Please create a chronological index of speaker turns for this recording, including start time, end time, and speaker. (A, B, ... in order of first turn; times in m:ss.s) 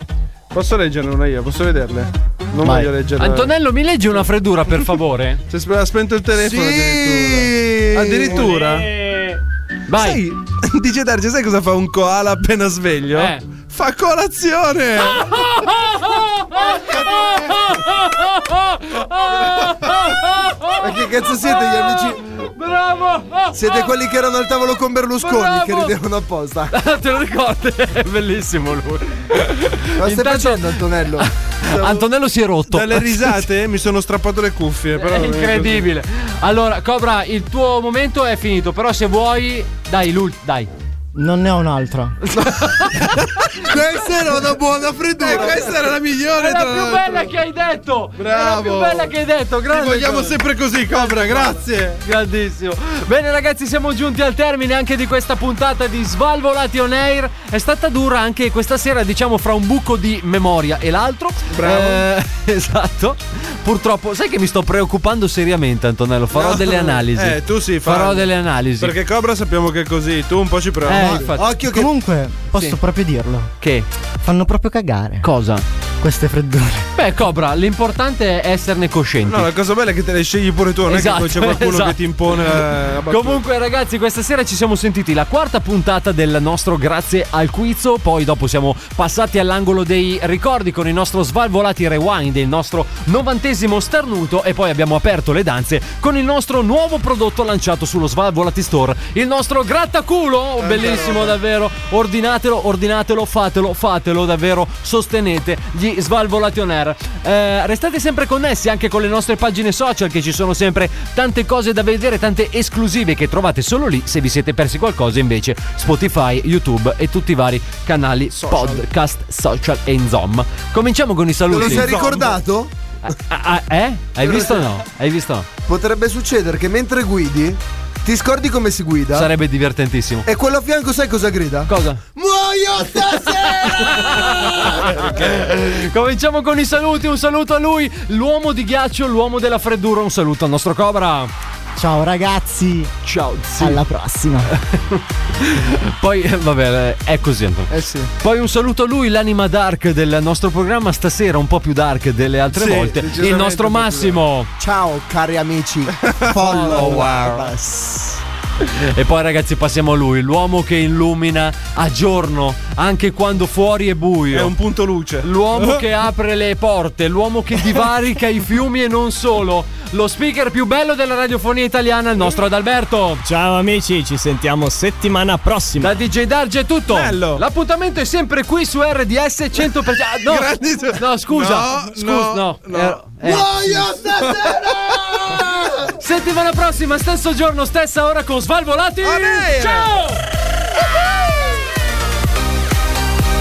0:00.5-0:03.5 A
0:02.6-0:02.9 B
0:03.2-0:05.4 C
0:05.5-0:08.9 A
0:06.3-0:08.5 D
0:08.5-0:09.4 E
0:09.9-0:10.2 C
0:09.9-0:15.7 A
0:13.1-0:13.4 C
0:15.1-0:20.8 C
0:20.8-0:22.2 D
0:21.5-0:23.9 C
0:23.5-0:26.7 D
0:25.2-0:26.0 C
0:26.7-0:33.4 C
0:29.9-0:31.3 D
0:32.7-0:35.9 A
0:35.0-0:40.7 C
0:41.1-0:42.2 B
0:42.2-0:43.1 C
0:43.6-0:45.6 D
0:45.2-0:50.4 C
0:45.2-0:47.3 A
0:48.2-0:49.1 A
0:49.7-0:52.0 A
0:50.9-1:08.9 C
1:01.5-1:02.1 A
1:06.3-1:11.2 A
1:10.8-1:11.5 C
1:10.9-1:13.5 B
1:11.3-1:11.9 D
1:13.6-1:13.9 C
1:14.2-1:15.3 B
1:15.2-1:15.6 C
1:16.0-1:16.9 B
1:16.9-1:19.5 C
1:19.3-1:23.4 A
1:20.9-2:02.2 C
1:40.6-1:41.4 A
2:01.5-2:02.7 D
2:01.5-2:02.2 A
2:03.0-2:05.5 C
2:04.2-2:04.5 D
2:05.7-2:09.3 D
2:09.1-2:10.3 C
2:10.2-2:15.0 D
2:11.7-2:12.0 C
2:13.6-2:21.3 C
2:21.8-2:22.9 B
2:23.0-2:23.8 C
2:23.6-2:24.5 B
2:24.5-2:34.5 C
2:27.7-2:28.0 A
2:32.5-2:34.2 A
2:34.6-2:38.2 D
2:36.0-2:37.5 A
2:36.3-2:37.3 C
2:38.7-2:44.5 C
2:44.3-2:45.3 A
2:45.2-2:53.2 C
2:53.2-2:56.0 E
2:55.8-3:03.5 C
2:56.9-2:57.4 A
3:00.3-3:03.0 A
3:03.2-3:05.9 D
3:04.2-3:05.0 A
3:06.0-3:10.2 C
3:09.0-3:09.9 A